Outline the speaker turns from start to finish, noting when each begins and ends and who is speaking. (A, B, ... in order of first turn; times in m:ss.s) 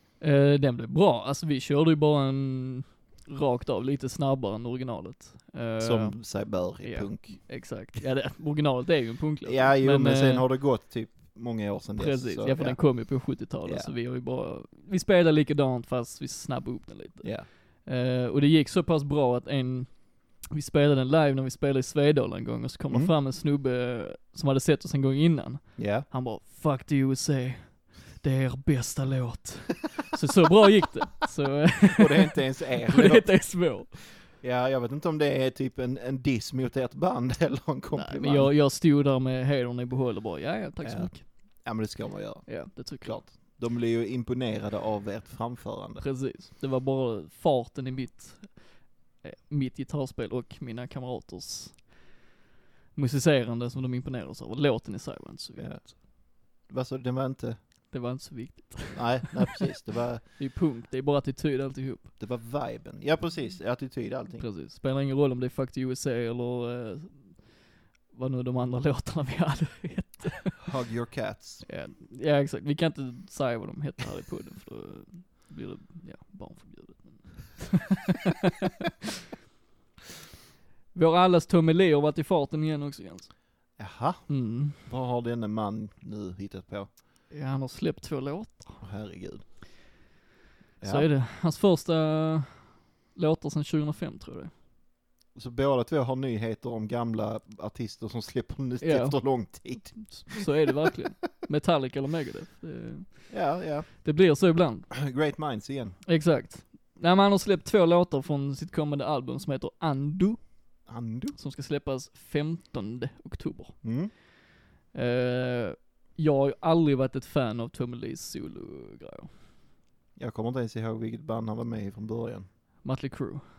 0:00.2-0:10.5 A
0:05.8-0:07.4 B
0:09.4-0:13.9 B
0:12.0-0:34.1 A
0:17.2-0:17.5 B
0:25.8-0:26.1 B
0:31.8-0:38.5 B
0:37.9-0:41.3 A
0:40.8-0:46.0 B
0:42.5-0:43.3 A
0:46.0-0:52.0 A
0:53.0-0:55.9 A
0:55.6-0:57.6 B
0:57.9-0:59.6 A
0:58.9-1:00.3 B
1:00.4-1:02.1 A
1:02.2-1:04.4 B
1:04.4-1:10.7 A
1:10.6-1:11.6 B
1:11.6-1:18.9 A
1:20.9-1:23.3 A
1:23.8-1:26.9 B
1:24.3-1:24.8 A
1:27.3-1:28.8 A
1:28.8-1:29.4 B
1:30.8-1:31.1 B
1:30.8-1:34.5 A
1:35.4-1:40.5 B
1:38.8-1:43.4 A
1:43.3-1:43.9 B
1:44.0-1:44.9 A
1:44.9-1:46.0 B
1:46.1-1:50.7 A
1:50.9-1:51.4 B
1:51.4-1:53.8 A
1:53.8-1:54.1 B
1:54.9-1:59.3 A
2:00.2-2:02.5 B
2:02.8-2:03.4 A